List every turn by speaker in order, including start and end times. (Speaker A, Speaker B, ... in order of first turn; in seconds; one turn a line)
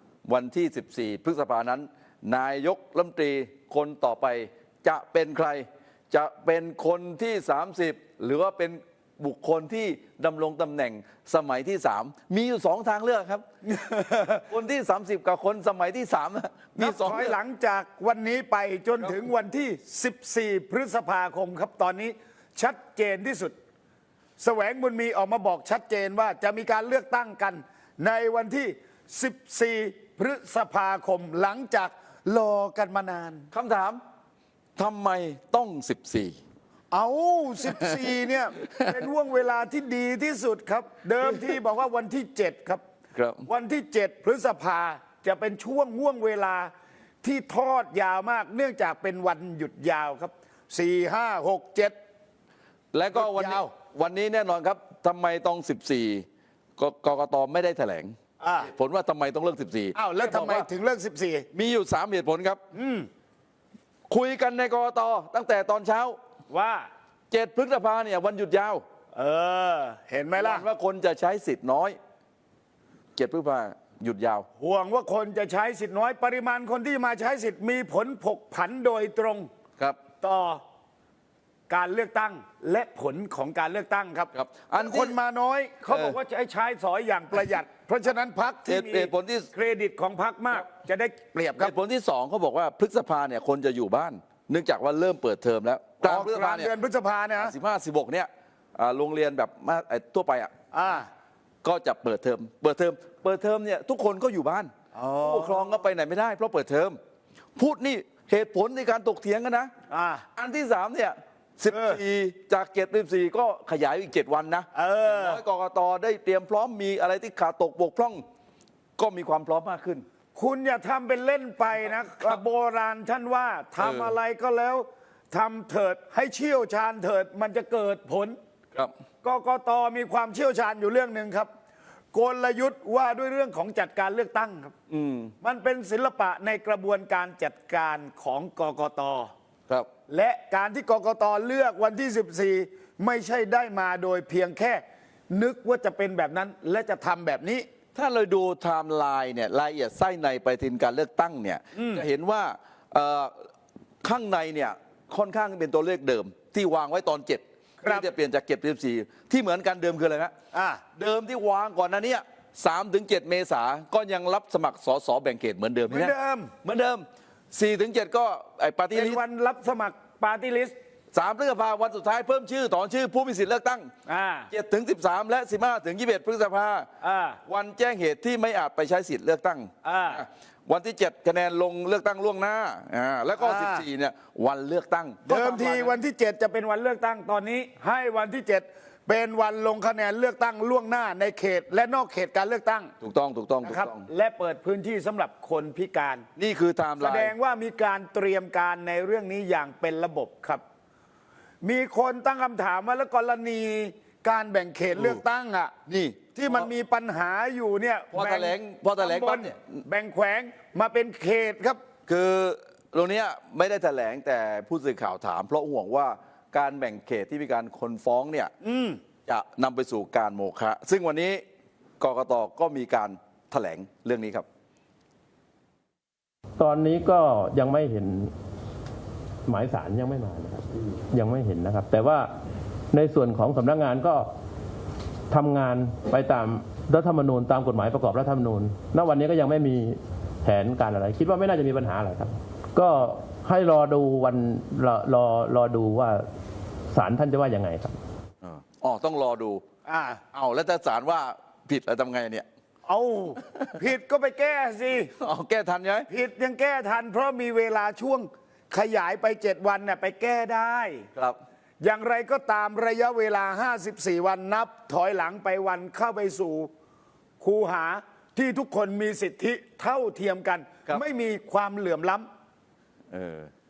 Speaker A: 0.2-13.4
Speaker B: 13.6-14.4
Speaker A: 14.5-17.3
Speaker B: 16.8-23.6
Speaker B: 24.4-33.5
Speaker A: 33.5-34.0
Speaker A: 34.8-36.4
Speaker B: 36.9-42.8
Speaker A: 37.6-39.0
Speaker A: 43.1-43.5
Speaker B: 43.5-46.7
Speaker B: 47.2-52.0
Speaker A: 52.9-56.2
Speaker B: 53.1-53.7
Speaker A: 56.8-60.7
Speaker B: 58.4-58.7
Speaker B: 59.9-61.5
Speaker A: 61.5-62.6
Speaker B: 62.7-63.1
Speaker A: 64.1-66.2
Speaker B: 66.5-66.9
Speaker A: 67.3-68.8
Speaker B: 69.1-70.7
Speaker A: 70.3-72.0
Speaker A: 73.2-74.5
Speaker B: 74.6-79.5
Speaker B: 80.2-80.6
Speaker B: 81.7-91.7
Speaker A: 84.3-85.2
Speaker A: 85.9-86.2
Speaker A: 88.7-89.5
Speaker A: 91.5-96.7
Speaker B: 96.0-97.5
Speaker A: 97.4-100.5
Speaker B: 100.7-101.1
Speaker A: 101.6-107.0
Speaker B: 104.9-105.7
Speaker A: 107.5-109.7
Speaker B: 109.9-110.2
Speaker A: 110.3-118.2
Speaker B: 111.7-112.0
Speaker B: 114.7-115.4
Speaker A: 119.0-120.0
Speaker B: 120.3-128.4
Speaker A: 123.8-124.1
Speaker B: 129.2-131.5
Speaker B: 132.1-134.7
Speaker A: 134.9-135.3
Speaker B: 135.4-139.3
Speaker B: 140.1-147.7
Speaker A: 147.9-153.4
Speaker B: 151.7-152.1
Speaker A: 154.0-160.3
Speaker B: 157.8-158.1
Speaker B: 160.5-160.8
Speaker A: 161.0-169.2
Speaker B: 165.9-166.5
Speaker B: 168.9-170.8
Speaker A: 171.1-173.9
Speaker B: 174.1-174.5
Speaker A: 174.5-176.9
Speaker B: 177.0-177.4
Speaker A: 177.5-186.0
Speaker B: 179.8-180.2
Speaker B: 183.4-183.9
Speaker B: 185.2-192.9
Speaker A: 193.0-194.1
Speaker B: 193.6-196.2
Speaker A: 196.3-197.3
Speaker B: 197.0-200.6
Speaker B: 201.6-205.7
Speaker A: 204.9-205.2
Speaker A: 205.9-206.7
Speaker B: 206.3-211.8
Speaker A: 208.1-209.8
Speaker A: 212.1-218.5
Speaker B: 218.6-219.0
Speaker A: 219.2-221.4
Speaker A: 222.0-224.4
Speaker C: 226.6-228.3
Speaker C: 229.4-232.3
Speaker C: 232.9-234.3
Speaker C: 235.3-246.2
Speaker C: 246.9-247.9
Speaker A: 248.4-249.6
Speaker B: 249.8-250.2
Speaker A: 250.3-252.4
Speaker B: 252.8-255.1
Speaker A: 253.4-253.7
Speaker A: 255.2-256.1
Speaker B: 256.1-261.1
Speaker B: 261.8-266.7
Speaker B: 267.4-272.3
Speaker A: 273.1-273.5